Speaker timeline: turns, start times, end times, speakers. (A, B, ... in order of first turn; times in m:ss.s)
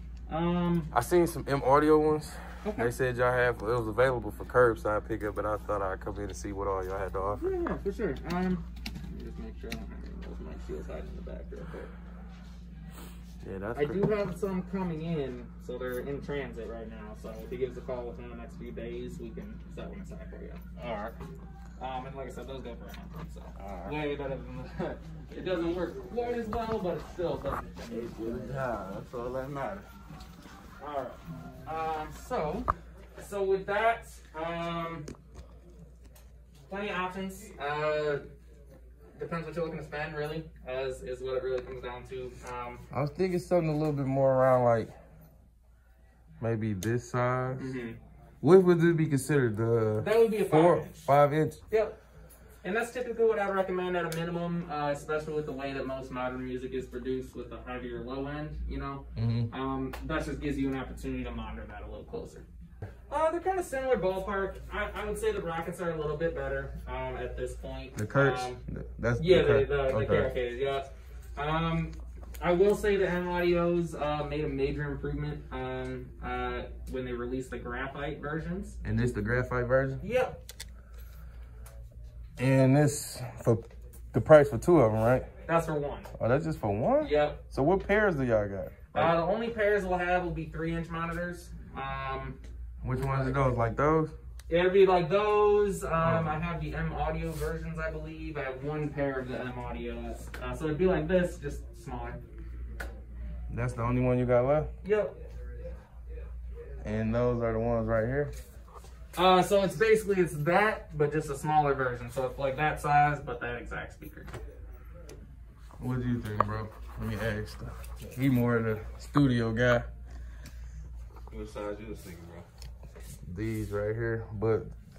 0:00.3-0:00.9 A
0:00.9-0:07.5 B
0:02.6-0:02.9 A
0:07.4-0:11.9 A
0:13.4-0:14.1 B
0:13.8-0:20.6 A
0:20.8-0:21.2 C
0:21.8-0:28.6 A
0:23.6-0:24.0 C
0:27.9-0:29.9 C
0:30.8-0:35.1 A
0:36.7-0:38.2 A
0:39.2-0:42.8 A
0:42.9-0:44.9 B
0:46.4-0:47.8 B
0:47.6-0:48.0 A
0:48.4-0:51.6 B
0:50.0-0:51.1 A
0:51.7-0:52.0 A
0:52.6-1:02.5 A
0:59.2-0:59.5 B
1:03.1-1:08.6 A
1:08.0-1:10.3 B
1:09.2-1:18.8 A
1:18.8-1:20.0 B
1:20.0-1:20.4 A
1:22.4-1:25.3 B
1:25.5-1:26.1 A
1:26.2-1:29.2 B
1:27.0-1:27.4 A
1:28.9-1:32.4 A
1:32.8-1:34.1 B
1:32.9-1:33.4 A
1:34.5-1:42.2 A
1:36.0-1:36.4 B
1:43.5-1:44.7 B
1:44.8-1:45.2 A
1:46.8-1:48.3 B
1:49.2-1:54.3 A
1:55.8-1:59.9 B
2:01.3-2:02.5 C
2:03.3-2:04.7 B